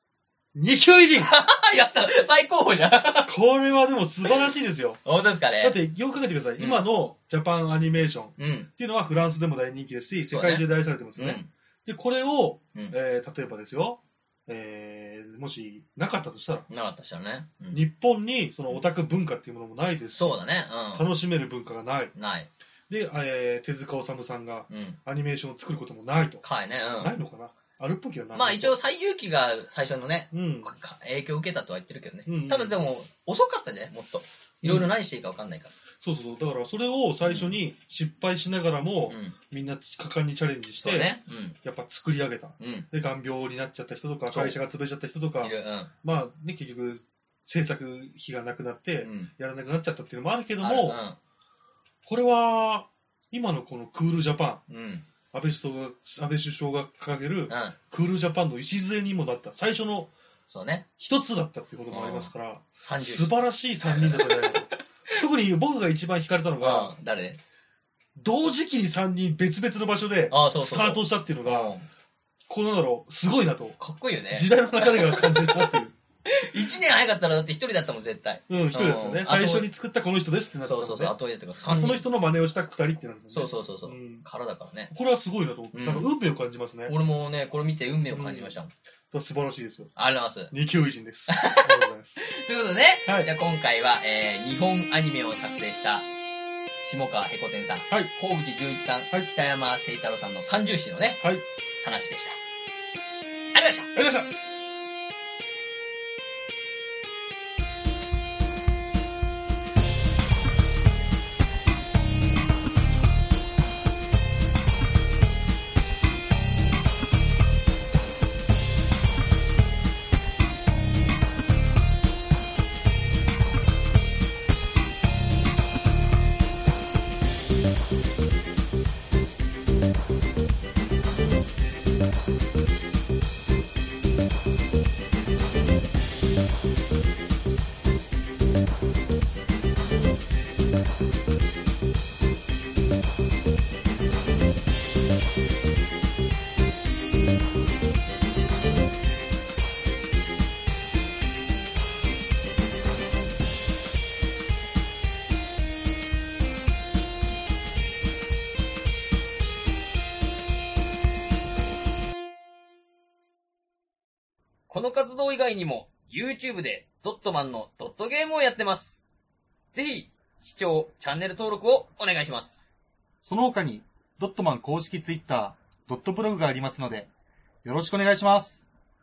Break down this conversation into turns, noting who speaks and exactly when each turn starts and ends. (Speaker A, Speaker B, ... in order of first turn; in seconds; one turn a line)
Speaker A: 0.5-1.3
Speaker B: 1.1-3.3
Speaker A: 3.2-5.0
Speaker B: 5.0-5.8
Speaker A: 5.6-16.7
Speaker B: 6.6-6.9
Speaker B: 8.4-8.7
Speaker B: 10.3-10.6
Speaker B: 11.2-11.5
Speaker B: 16.7-17.8
Speaker A: 17.7-20.3
Speaker B: 20.1-21.0
Speaker A: 20.9-22.1
Speaker B: 22.1-22.5
Speaker A: 22.9-26.4
Speaker B: 24.7-25.0
Speaker B: 26.4-27.1
Speaker A: 27.0-28.8
Speaker B: 28.3-35.8
Speaker A: 30.3-30.7
Speaker A: 32.3-32.8
Speaker A: 34.6-34.9
Speaker A: 36.0-51.0
Speaker B: 37.2-37.5
Speaker B: 39.1-39.3
Speaker B: 40.8-41.6
Speaker B: 42.6-42.9
Speaker B: 44.3-44.6
Speaker B: 45.4-45.9
Speaker B: 49.0-49.3
Speaker B: 50.6-51.2
Speaker A: 52.0-54.6
Speaker B: 54.7-55.0
Speaker A: 55.3-60.1
Speaker B: 57.5-57.8
Speaker B: 60.5-60.9
Speaker A: 61.0-66.9
Speaker B: 61.9-63.3
Speaker B: 63.9-65.2
Speaker B: 66.6-67.4
Speaker A: 68.2-71.7
Speaker B: 70.3-71.8
Speaker A: 72.5-73.8
Speaker B: 73.8-79.7
Speaker A: 74.3-75.9
Speaker A: 78.5-81.1
Speaker B: 80.6-82.0
Speaker A: 81.7-84.2
Speaker B: 83.3-84.9
Speaker A: 84.9-86.9
Speaker B: 85.7-86.1
Speaker B: 86.9-88.7
Speaker A: 88.1-88.5
Speaker A: 89.1-89.9
Speaker B: 90.0-90.5
Speaker A: 90.5-92.2
Speaker B: 91.3-96.0
Speaker A: 93.0-93.3
Speaker B: 96.8-101.2
Speaker B: 101.8-102.4
Speaker B: 103.5-103.9
Speaker A: 103.9-104.3
Speaker B: 164.7-169.0
Speaker B: 169.7-172.7
Speaker C: 173.2-177.1
Speaker C: 177.6-178.7